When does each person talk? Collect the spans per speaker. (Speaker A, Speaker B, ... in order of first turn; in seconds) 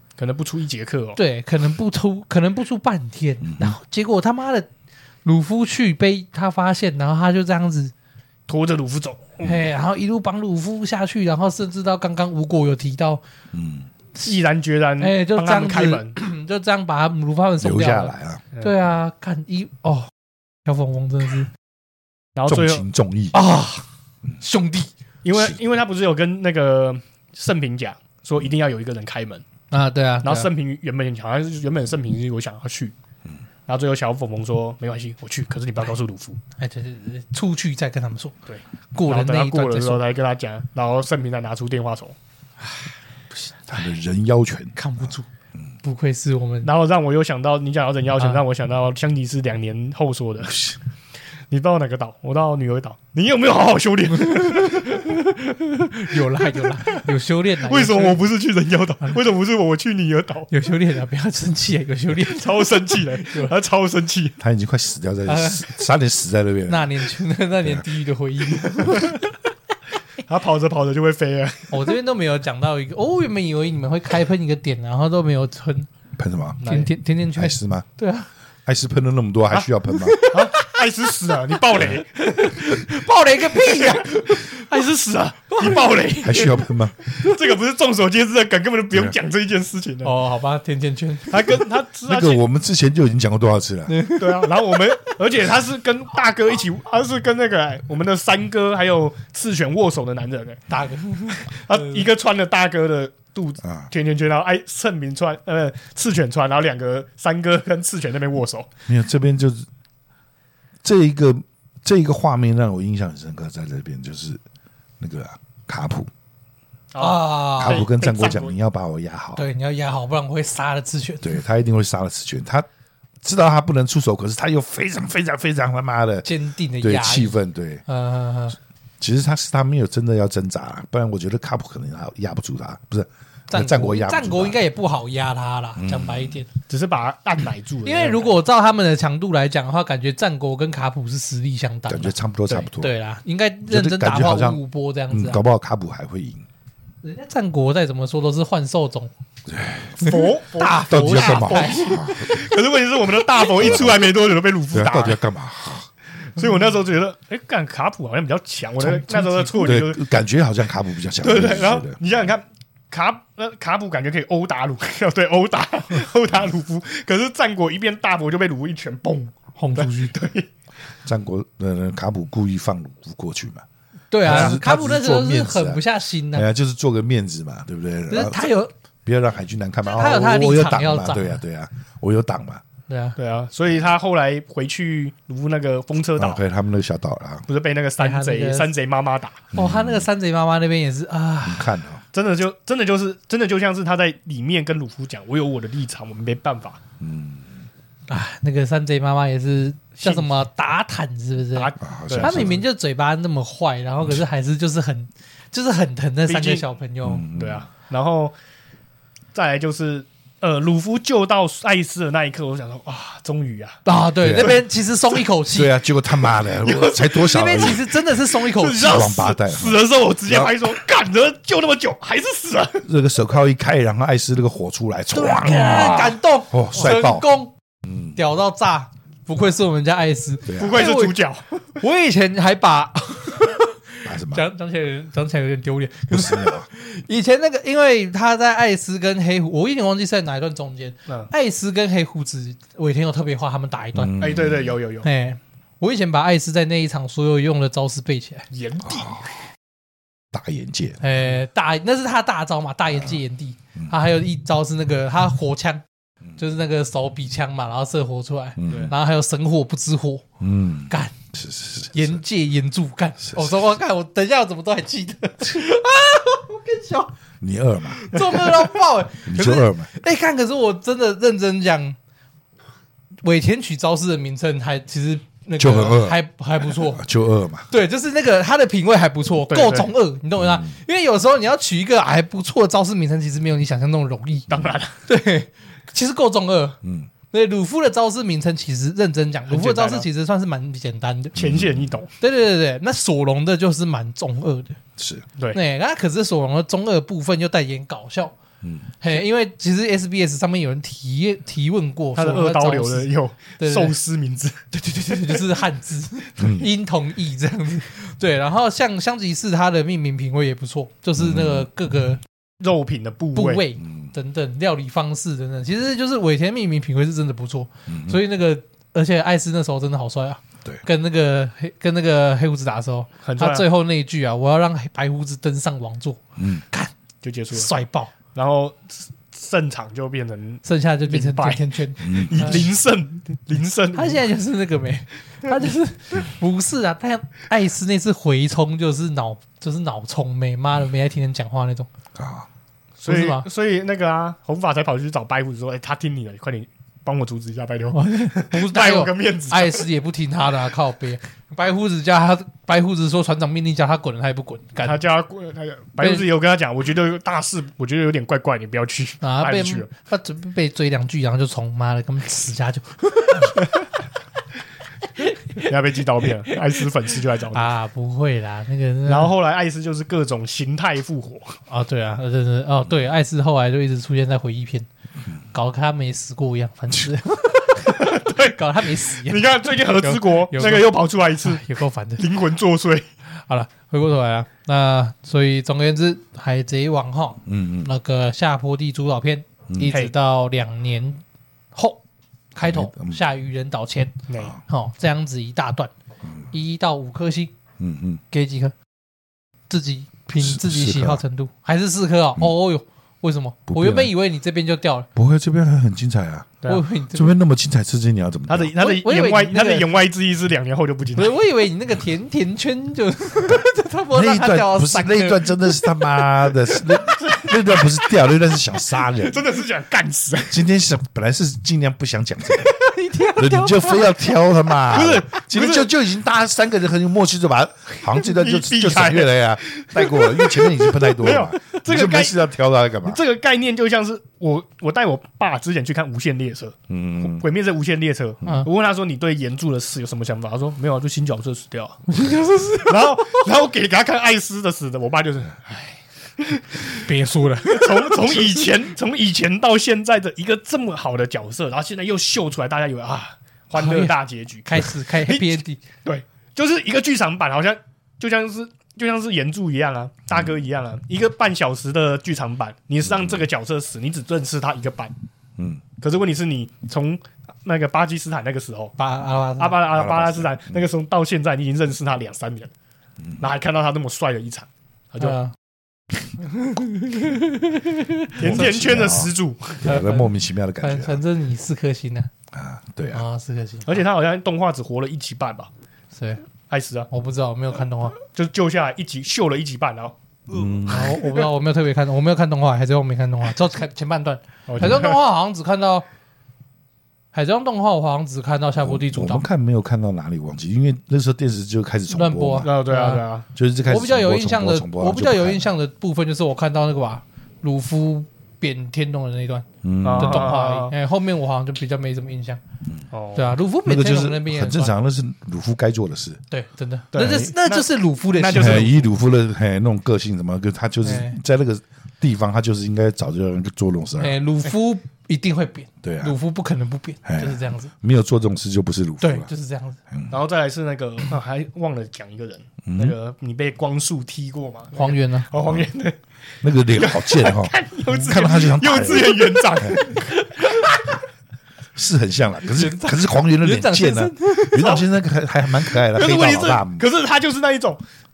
Speaker A: 0.2-1.2, 8.5-9.4, 14.2-16.1, 22.4-22.8, 25.2-29.4, 30.2-32.9, 33.7-36.4, 38.5-42.1, 46.6-50.7, 51.5-55.3, 56.4-57.1, 57.6-60.5, 62.2-64.4, 70.2-71.9, 76.6-76.9, 80.3-82.5, 83.5-90.1, 91.3-92.4, 94.2-100.6, 101.3-108.7, 116.9-118.5, 136.7-138.3, 150.0-155.2, 156.3-160.0, 161.2-170.5, 174.2-174.6, 183.2-186.4, 187.5-189.5, 192.1-196.8, 200.0-200.3, 201.5-202.6, 206.3-206.7, 207.3-208.3, 209.3-213.8, 216.3-217.8, 218.3-222.8, 225.6-226.0, 230.6-231.7, 244.2-245.1, 248.5-249.3, 258.7-258.9, 279.5-279.9, 284.5-284.9, 289.5-290.1, 291.4-292.1, 302.1-305.4, 312.6-313.6, 323.2-323.7, 327.2-327.7, 328.3-334.2, 343.0-349.9, 354.8-359.9, 365.6-367.7, 369.1-371.6, 377.8-381.6, 382.2-383.1, 394.3-394.5, 408.5-411.3, 419.1-420.6, 424.9-425.9, 428.0-432.5, 433.0-442.0, 442.9-447.1, 447.6-465.1, 466.0-468.9, 469.6-472.7, 473.4-475.4, 478.4-479.9, 483.9-485.7, 486.7-487.1, 488.2-491.5, 494.7-495.2, 502.6-503.4, 510.0-510.9, 513.1-513.5, 517.1-519.1, 530.3-536.2, 536.9-541.1, 544.7-545.0, 545.9-548.0
Speaker B: 1.1-4.7, 5.2-7.9, 9.4-13.2, 15.0-20.1, 20.6-21.5, 23.3-23.9, 24.4-24.9, 29.7-30.5, 36.6-38.4, 38.9-40.0, 44.8-45.3, 45.8-46.7, 48.2-48.4, 54.2-58.2, 60.5-63.5, 65.2-65.8, 66.7-69.3, 71.7-75.9, 76.6-78.3, 79.9-80.7, 81.8-84.6, 85.5-85.9, 90.0-91.6, 93.9-95.1, 100.7-101.9, 117.0-117.8, 119.3-121.4, 126.2-128.6, 133.5-136.5, 137.8-142.1, 142.7-145.4, 147.0-149.1, 150.0-152.4, 158.8-159.7, 169.6-170.1, 174.1-176.5, 178.1-178.7, 179.8-181.4, 182.9-183.2, 188.0-188.7, 189.5-191.8, 198.1-207.3, 213.8-215.7, 217.1-219.1, 225.1-227.5, 228.1-231.2, 231.8-244.2, 245.0-248.5, 251.0-255.8, 256.4-260.3, 260.9-261.1, 261.9-267.1, 267.9-272.0, 273.2-277.0, 277.7-284.5, 285.0-286.8, 287.3-291.4, 292.2-294.8, 295.5-298.3, 299.0-303.9, 304.7-312.2, 313.3-326.9, 327.5-328.1, 330.6-332.7, 333.9-341.9, 343.1-343.4, 347.9-355.0, 356.0-356.2, 359.2-363.7, 365.2-365.7, 367.5-369.3, 371.7-374.9, 375.5-382.2, 383.4-391.2, 391.7-392.0, 392.5-395.9, 396.5-397.5, 398.3-398.7, 399.7-405.1, 406.6-407.3, 408.8-409.9, 411.1-416.5, 422.5-424.1, 442.1-443.4, 447.0-448.6, 453.7-455.8, 469.0-469.8, 475.2-475.5, 476.4-478.6, 479.8-482.3, 483.1-484.0, 486.1-486.4, 487.1-488.2, 490.9-496.1, 497.3-499.4, 502.1-503.3, 503.9-512.6, 513.3-514.9, 516.5-519.0, 521.0-521.4, 524.2-527.9, 529.2-530.0, 534.9-535.5, 542.6-545.0
Speaker C: 3.4-3.8, 13.5-13.9, 17.6-18.4, 22.5-23.4, 43.7-45.1, 50.5-50.8, 64.4-67.1, 76.2-76.6, 77.3-77.9, 78.7-80.2, 86.2-87.0, 92.0-94.0, 108.9-109.7, 110.8-114.4, 115.0-116.1, 117.6-119.4, 121.2-122.7, 123.2-126.3, 126.8-127.8, 129.0-134.6, 135.8-136.4, 141.9-142.9, 143.7-146.4, 149.5-150.1, 150.9-152.3, 153.6-154.1, 154.7-155.9, 159.5-162.2, 171.0-173.6, 174.2-178.5, 179.0-182.6, 186.2-187.4, 189.5-190.1, 191.4-192.0, 197.0-197.7, 201.8-202.6, 207.0-207.7, 214.2-214.6, 215.5-217.8, 218.8-220.6, 222.8-227.2, 227.8-228.2, 230.4-230.8, 234.0-234.4, 236.1-236.7, 243.9-244.8, 248.8-249.2, 250.3-251.1, 258.6-258.9, 260.4-262.2, 263.2-263.5, 267.4-268.2, 269.2-269.9, 275.6-276.2, 276.7-277.7, 280.4-280.8, 286.8-287.1, 291.4-292.0, 295.0-295.2, 306.4-306.7, 311.2-311.7, 313.8-314.1, 317.9-318.2, 326.4-326.6, 332.0-332.7, 342.1-342.5, 387.4-387.9, 392.6-393.2, 397.8-398.2, 400.4-401.2, 403.7-404.1, 405.1-408.7, 414.1-419.4, 420.5-422.8, 423.3-433.2, 436.9-437.4, 463.0-463.4, 465.6-465.8, 469.9-470.8, 473.2-473.5, 478.4-481.2, 482.5-483.2, 490.5-491.2, 498.8-502.7, 503.5-505.7, 509.8-510.6, 513.8-516.4, 518.5-524.4, 526.0-526.4, 527.2-529.5, 532.9-533.1, 535.6-535.9, 536.6-540.0, 541.9-547.0